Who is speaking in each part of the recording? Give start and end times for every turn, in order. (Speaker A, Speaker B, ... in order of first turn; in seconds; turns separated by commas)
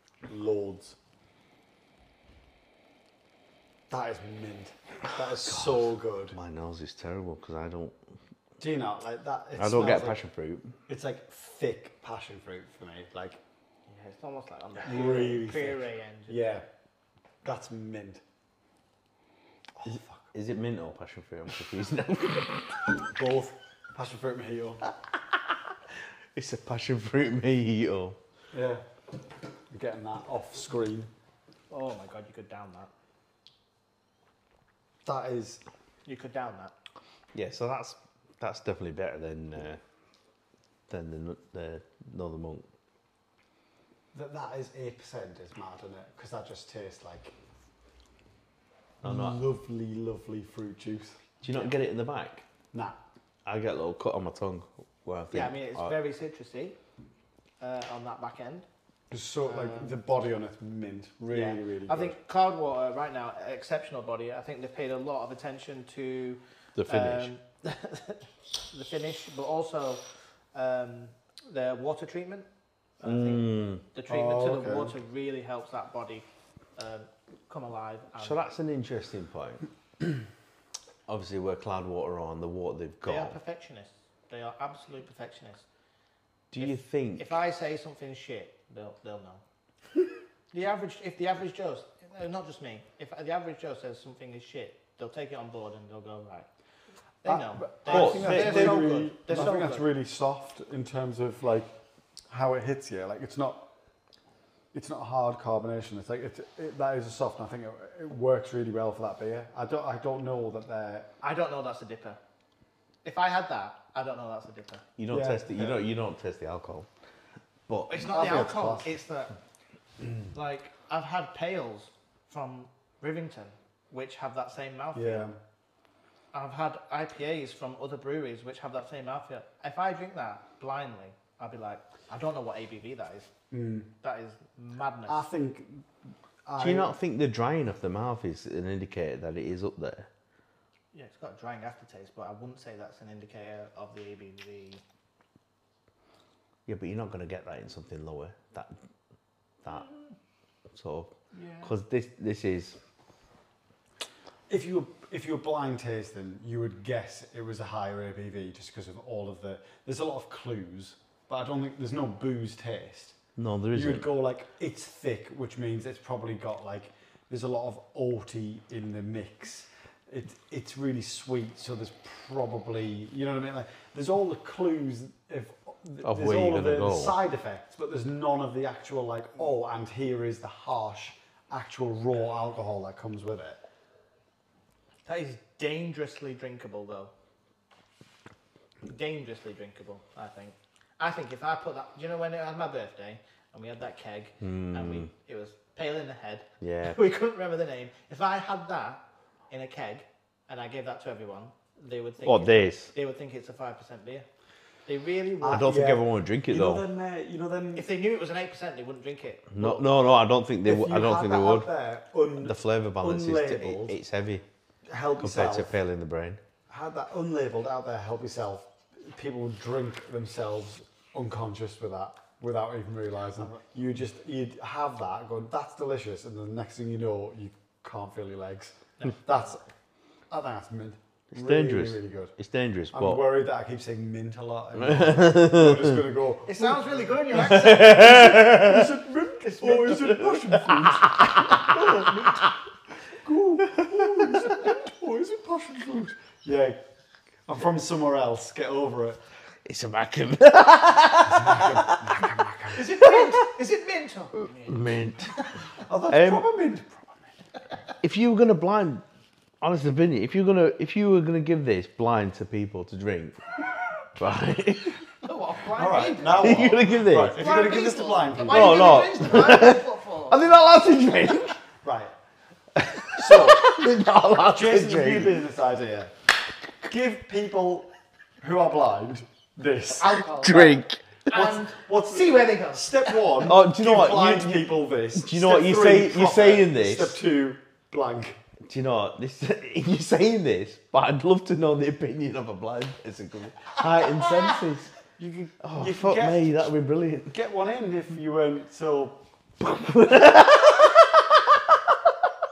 Speaker A: 0.3-0.9, Speaker A: 3.9-6.3, Speaker B: 5.5-8.0, Speaker A: 8.6-10.2, Speaker B: 9.6-10.7, Speaker A: 10.9-13.4, Speaker C: 13.9-16.6, Speaker A: 14.8-16.6, Speaker A: 17.4-18.2, Speaker A: 19.8-20.3, Speaker B: 19.9-22.9, Speaker A: 23.1-24.8, Speaker B: 26.4-28.2, Speaker A: 28.5-28.8, Speaker A: 29.7-31.1, Speaker C: 31.7-32.9, Speaker A: 35.0-35.6, Speaker C: 36.1-36.7, Speaker B: 37.3-39.8, Speaker B: 40.9-42.7, Speaker A: 44.1-47.3, Speaker B: 49.0-49.4, Speaker A: 49.0-51.2, Speaker B: 51.4-52.5, Speaker B: 53.5-55.9, Speaker C: 55.3-56.8, Speaker C: 57.6-58.7, Speaker A: 59.1-62.2, Speaker C: 59.5-60.0, Speaker C: 61.3-70.0, Speaker B: 66.8-67.3, Speaker C: 70.5-72.5, Speaker C: 73.0-76.2, Speaker B: 73.0-73.8, Speaker A: 74.1-74.9, Speaker C: 76.8-78.4, Speaker B: 78.2-79.6, Speaker B: 81.1-83.4, Speaker C: 83.0-85.7, Speaker B: 86.5-87.3, Speaker C: 86.6-89.4, Speaker C: 90.5-96.5, Speaker C: 97.2-99.9, Speaker A: 97.3-101.7, Speaker B: 97.9-98.9, Speaker A: 102.3-103.7, Speaker A: 104.7-111.1, Speaker C: 111.2-112.2, Speaker C: 113.0-114.8, Speaker B: 115.0-116.9, Speaker A: 115.1-115.8, Speaker B: 117.7-117.9, Speaker C: 117.9-119.3, Speaker A: 118.1-118.9, Speaker C: 120.3-125.3, Speaker A: 125.0-125.4, Speaker C: 126.3-133.3, Speaker A: 133.5-133.9, Speaker C: 134.0-135.3, Speaker A: 135.1-135.9, Speaker A: 136.5-136.9, Speaker B: 136.6-140.1, Speaker C: 140.9-144.8, Speaker B: 146.7-148.8, Speaker B: 149.6-149.9, Speaker B: 150.7-152.8, Speaker C: 151.3-151.7, Speaker A: 154.5-163.2, Speaker B: 163.4-164.1, Speaker A: 163.7-183.6, Speaker B: 176.0-177.2, Speaker C: 185.1-187.1, Speaker C: 188.9-204.3, Speaker B: 194.4-195.1, Speaker B: 196.6-197.0, Speaker B: 202.2-202.9, Speaker C: 204.9-205.7, Speaker A: 205.4-207.9, Speaker B: 205.5-206.8, Speaker C: 207.7-209.8, Speaker B: 209.5-211.7, Speaker A: 210.7-214.0, Speaker B: 212.4-214.4, Speaker A: 214.9-215.7, Speaker B: 215.2-216.4, Speaker A: 216.7-229.6, Speaker C: 229.0-229.6, Speaker A: 230.3-232.3, Speaker B: 231.3-233.2, Speaker A: 232.9-242.5, Speaker B: 234.8-236.0, Speaker C: 236.5-238.3, Speaker B: 237.3-239.0, Speaker C: 239.4-239.9, Speaker B: 239.6-242.4, Speaker A: 243.2-246.8, Speaker B: 243.8-244.4, Speaker A: 247.5-249.2, Speaker B: 249.7-252.3, Speaker A: 251.2-253.0, Speaker C: 252.7-255.4, Speaker B: 253.1-253.3, Speaker B: 254.7-255.3, Speaker A: 255.8-257.3, Speaker B: 256.1-256.5, Speaker B: 258.0-259.0, Speaker B: 259.6-263.4, Speaker B: 264.2-265.0, Speaker C: 265.2-270.5, Speaker A: 265.8-269.2, Speaker B: 266.4-267.4, Speaker B: 268.4-271.6, Speaker A: 271.8-272.1, Speaker A: 272.8-273.7, Speaker B: 272.9-275.4, Speaker A: 274.5-276.1, Speaker A: 276.8-277.9, Speaker A: 278.4-280.6, Speaker C: 280.0-283.4, Speaker B: 280.3-281.0, Speaker A: 281.3-288.4, Speaker B: 283.4-287.2, Speaker B: 288.7-294.9, Speaker A: 295.2-296.5, Speaker B: 295.6-297.3, Speaker A: 297.3-299.2, Speaker B: 299.6-302.1